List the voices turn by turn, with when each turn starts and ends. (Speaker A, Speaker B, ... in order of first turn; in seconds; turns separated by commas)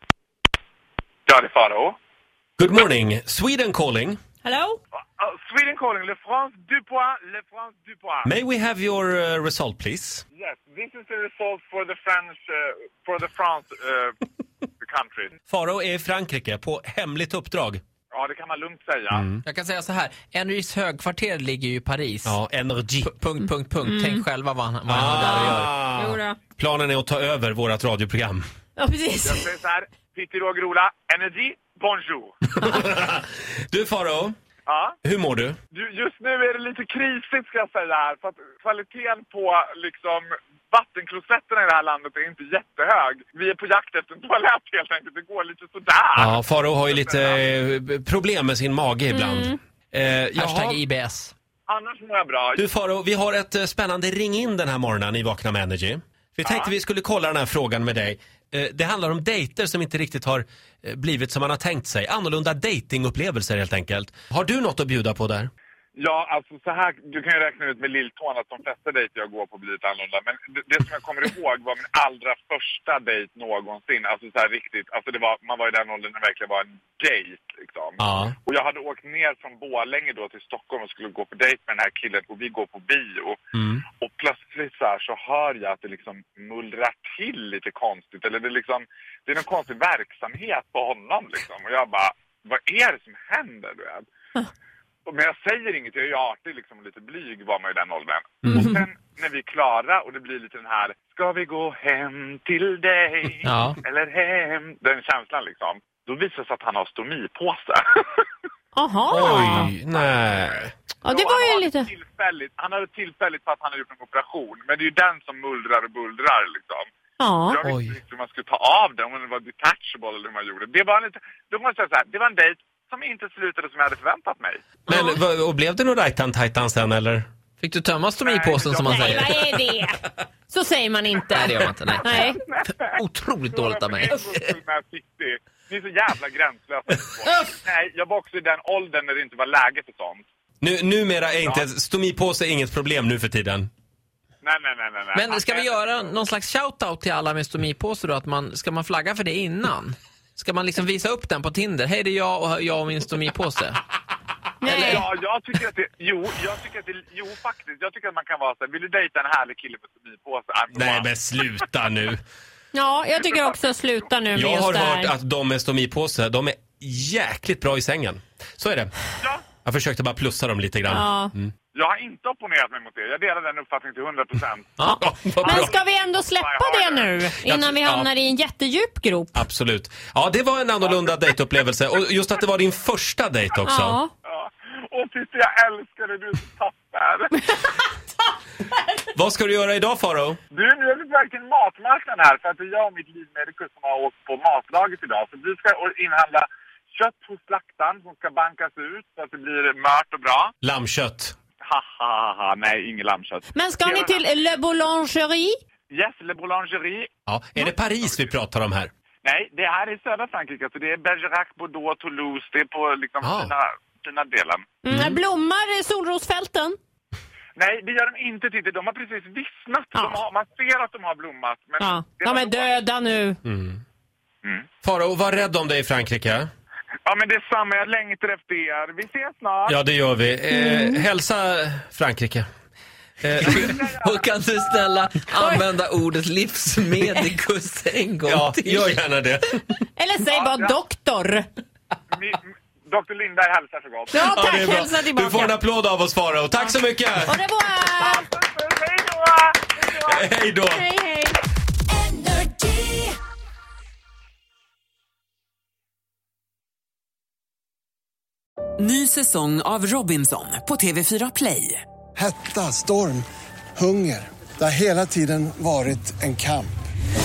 Speaker A: 1.2-1.9, Speaker B: 2.6-4.2, Speaker C: 4.4-4.8, Speaker A: 5.0-8.3, Speaker B: 8.2-10.2, Speaker A: 10.3-14.2, Speaker A: 14.8-15.4, Speaker B: 15.5-17.8, Speaker A: 18.1-19.2, Speaker B: 19.1-19.4, Speaker D: 19.4-22.4, Speaker B: 22.2-23.1, Speaker D: 23.0-25.7, Speaker C: 23.8-24.2, Speaker B: 24.9-28.4, Speaker C: 25.2-26.4, Speaker C: 28.8-29.5, Speaker A: 29.2-32.4, Speaker B: 32.5-34.4, Speaker A: 34.7-35.0, Speaker B: 35.0-35.6, Speaker A: 35.7-47.4, Speaker B: 46.1-50.8, Speaker C: 49.1-49.6, Speaker D: 50.3-51.3, Speaker A: 51.7-52.6, Speaker B: 52.6-65.5, Speaker A: 56.4-56.7, Speaker A: 66.0-83.4, Speaker B: 78.0-78.3, Speaker B: 83.5-83.8, Speaker A: 84.0-94.0, Speaker A: 95.0-108.2, Speaker B: 98.5-98.7, Speaker D: 103.4-103.8, Speaker C: 108.7-109.7, Speaker B: 109.1-110.7, Speaker A: 109.3-116.9, Speaker C: 111.0-111.9, Speaker C: 117.2-117.6, Speaker A: 117.5-124.7, Speaker D: 117.6-117.9, Speaker B: 124.9-127.2, Speaker C: 124.9-125.2, Speaker D: 127.6-129.5, Speaker A: 128.2-129.3, Speaker C: 128.8-132.4, Speaker D: 131.3-132.2, Speaker A: 132.0-133.0, Speaker D: 132.7-134.5, Speaker A: 133.5-140.2, Speaker B: 140.6-143.7, Speaker A: 144.4-146.2, Speaker D: 145.1-153.8, Speaker C: 154.6-155.0, Speaker D: 154.7-155.0, Speaker A: 154.7-161.1, Speaker B: 160.7-162.2, Speaker C: 162.7-165.1, Speaker A: 163.2-164.1, Speaker B: 164.3-168.9, Speaker B: 169.6-171.5, Speaker C: 170.9-171.3, Speaker A: 171.7-174.7, Speaker C: 174.8-179.4, Speaker B: 175.0-175.7, Speaker A: 175.4-177.2, Speaker B: 177.4-178.1, Speaker B: 179.3-184.0, Speaker A: 180.8-181.2, Speaker C: 183.7-184.1, Speaker A: 184.2-187.4, Speaker B: 189.1-190.4, Speaker A: 190.5-200.5, Speaker B: 200.6-201.3, Speaker A: 201.6-204.2, Speaker C: 203.5-205.6, Speaker A: 205.9-207.1, Speaker B: 207.3-208.9, Speaker A: 208.0-208.3, Speaker A: 209.2-214.7, Speaker B: 213.2-213.5, Speaker C: 214.8-216.8, Speaker B: 214.9-215.2, Speaker A: 217.6-222.8, Speaker C: 219.9-220.2, Speaker C: 221.8-223.4, Speaker B: 223.4-223.8, Speaker B: 224.8-226.5, Speaker A: 227.1-229.8, Speaker B: 229.7-232.5, Speaker C: 230.5-231.0, Speaker B: 233.2-233.8, Speaker A: 233.4-234.2, Speaker D: 233.4-238.9, Speaker C: 235.3-235.6, Speaker B: 238.2-239.6, Speaker C: 239.9-241.5, Speaker A: 240.2-240.8, Speaker A: 242.1-244.2, Speaker C: 244.1-245.6, Speaker B: 244.2-247.4, Speaker C: 247.2-248.3, Speaker A: 247.9-250.3, Speaker B: 250.0-250.8, Speaker C: 250.7-251.4, Speaker E: 252.1-253.1, Speaker E: 258.8-261.8, Speaker F: 262.1-263.2, Speaker F: 263.8-266.7